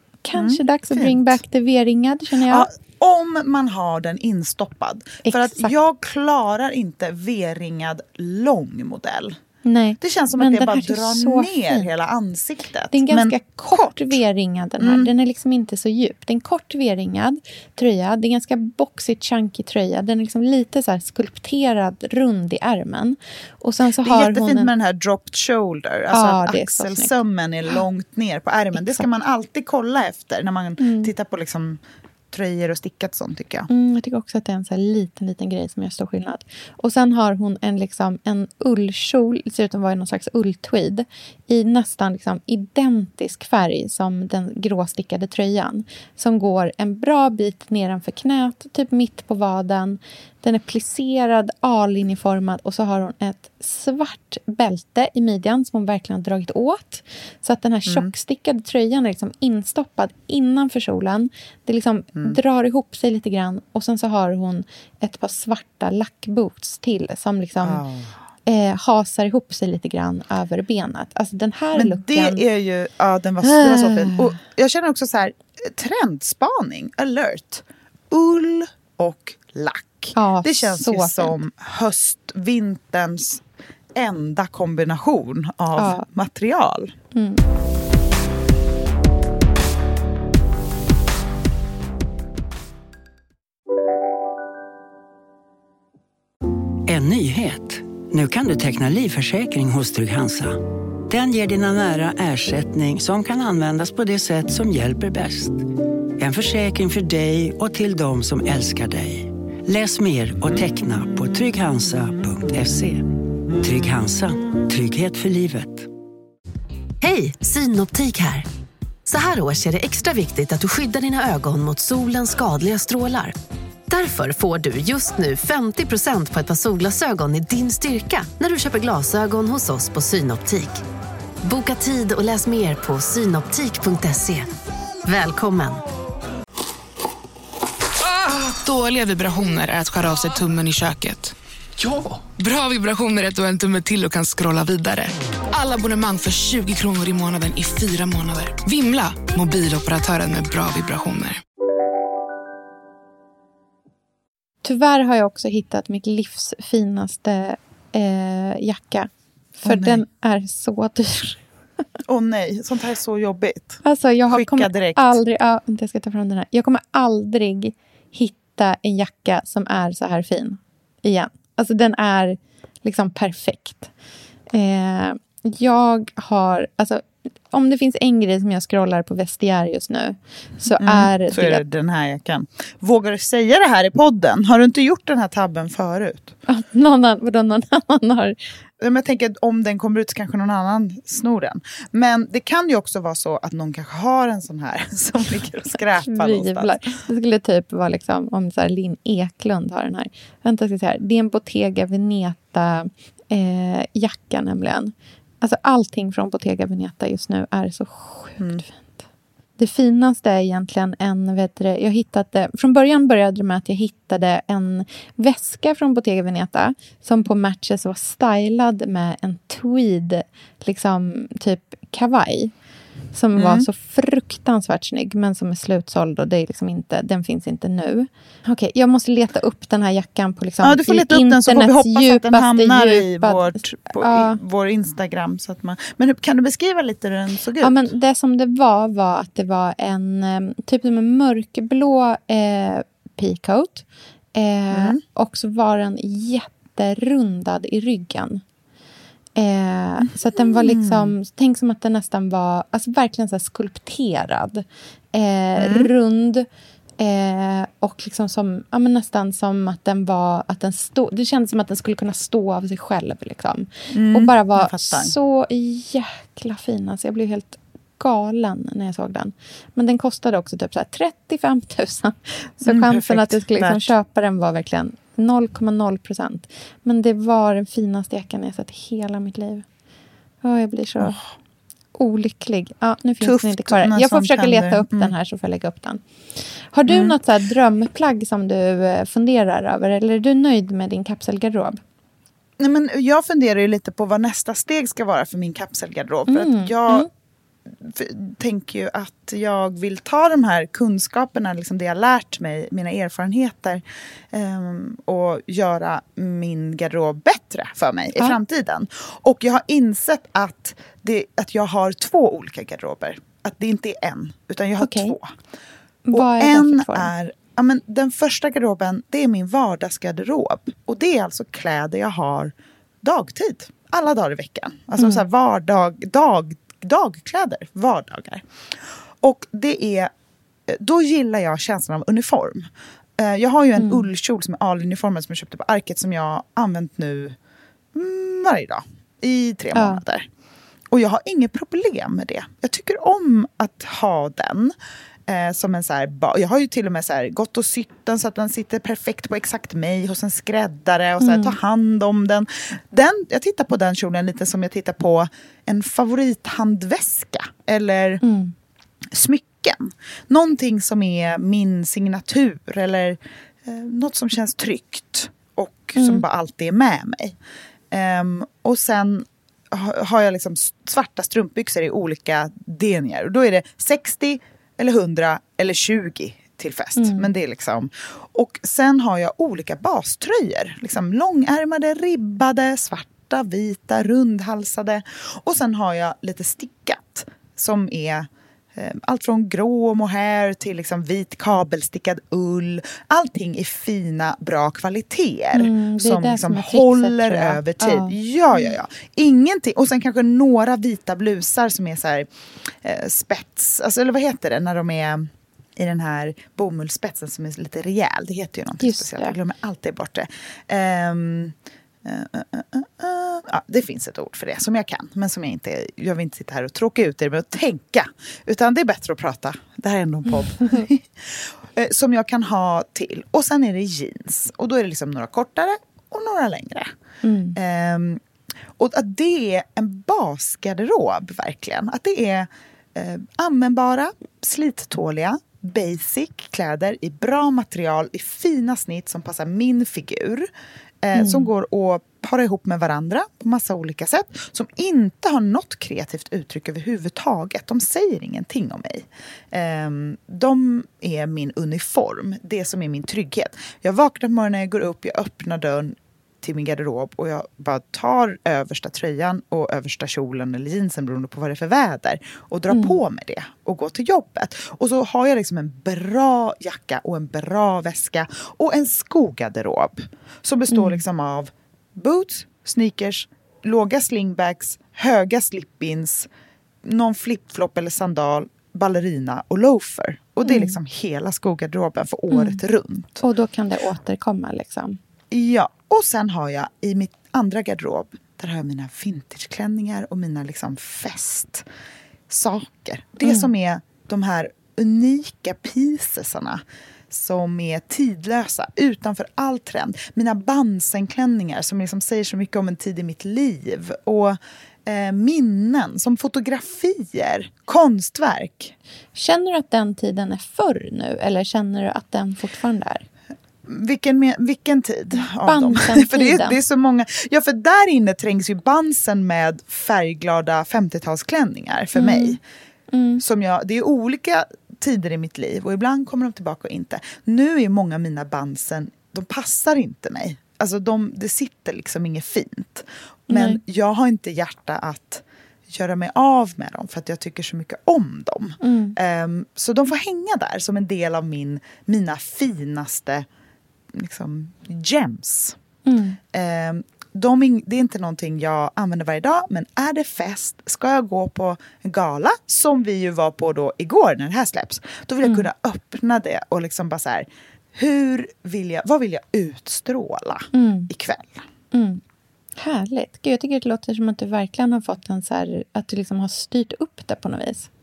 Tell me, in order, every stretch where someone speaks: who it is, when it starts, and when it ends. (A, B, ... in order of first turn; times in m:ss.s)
0:00.2-0:02.7 A
0:00.3-0:01.4 B
0:02.4-0:09.4 B
0:05.2-0:05.7 A
0:09.6-0:11.9 A
0:10.0-0:14.2 B
0:12.9-0:24.7 A
0:14.8-0:15.1 B
0:24.0-0:31.8 B
0:26.1-0:27.2 A
0:28.7-0:29.0 A
0:30.8-0:31.1 A
0:32.3-0:33.7 B
0:33.7-1:07.8 A
0:57.9-0:58.1 B
1:07.6-1:08.1 B
1:08.4-1:12.4 A
1:11.7-1:23.4 B
1:13.4-1:14.4 A
1:20.1-1:21.3 A
1:23.9-1:26.9 B
1:25.8-1:26.0 A
1:27.1-1:27.4 A
1:36.8-1:45.6 C
1:46.2-1:53.1 C
1:53.6-1:55.9 C
1:57.0-1:58.4 D
1:59.0-2:03.4 D
2:03.9-2:10.8 D
2:11.4-2:14.5 D
2:15.0-2:15.8 D
2:18.2-2:31.4 E
2:34.6-2:39.1 A
2:39.6-2:40.0 B
2:39.6-2:41.4 A
2:42.0-2:45.2 B
2:43.8-2:53.9 A
2:54.5-3:01.6 A
3:00.8-3:06.4 B
3:06.5-3:08.4 A
3:08.8-3:17.0 B
3:16.0-3:29.0 A
3:29.6-3:42.5 A
3:43.1-3:54.4 A
3:43.3-3:43.7 B
3:50.6-3:57.9 B
3:57.6-4:03.8 A
4:04.4-4:08.4 A
4:04.7-4:05.0 B
4:09.4-4:16.5 A
4:10.0-4:11.1 B
4:15.6-4:15.9 B
4:17.0-4:39.6 A
4:23.9-4:25.1 B
4:32.6-4:33.9 B
4:40.4-4:41.2 A
4:41.0-4:41.2 B
4:42.0-4:51.8 A
4:43.2-4:45.1 B
4:46.9-4:47.2 B
4:52.6-4:57.1 B
4:56.3-4:57.1 A
4:57.7-5:15.3 B
5:14.8-5:15.2 A
5:16.1-5:17.1 A
5:16.1-5:28.4 B
5:25.0-5:25.2 A
5:29.2-5:30.1 B
5:30.7-5:37.4 B
5:33.8-5:34.1 A
5:37.9-5:40.3 B
5:39.7-5:40.0 A
5:40.9-5:44.7 B
5:45.3-5:58.2 B
5:51.2-5:51.6 A
5:58.2-5:58.5 A
5:59.1-6:07.4 B
6:06.0-6:06.2 A
6:07.9-7:06.9 B
6:17.0-6:17.3 A
6:35.5-6:38.7 A
6:48.8-6:49.3 A
7:07.2-7:07.6 A
7:07.5-7:08.2 B
7:08.8-7:20.5 B
7:21.0-7:56.3 B
7:21.1-7:21.5 A
7:42.7-7:43.0 A
7:50.7-7:51.0 A
7:56.8-8:03.2 B
8:00.4-8:00.8 A
8:02.3-8:02.6 A
8:03.2-8:05.0 A
8:05.3-8:11.6 B
8:12.3-8:28.7 B
8:29.1-8:33.0 A
8:33.6-8:42.4 B
8:35.1-8:36.6 A
8:41.9-8:42.4 A
8:42.9-8:43.2 A
8:43.2-9:03.2 B
8:53.3-8:53.6 A
8:58.6-8:59.0 A
9:03.9-9:05.6 B
9:05.8-9:06.2 A
9:06.3-9:21.4 B
9:15.2-9:15.5 A
9:20.5-9:20.9 A
9:21.7-9:22.0 A
9:22.6-9:27.7 A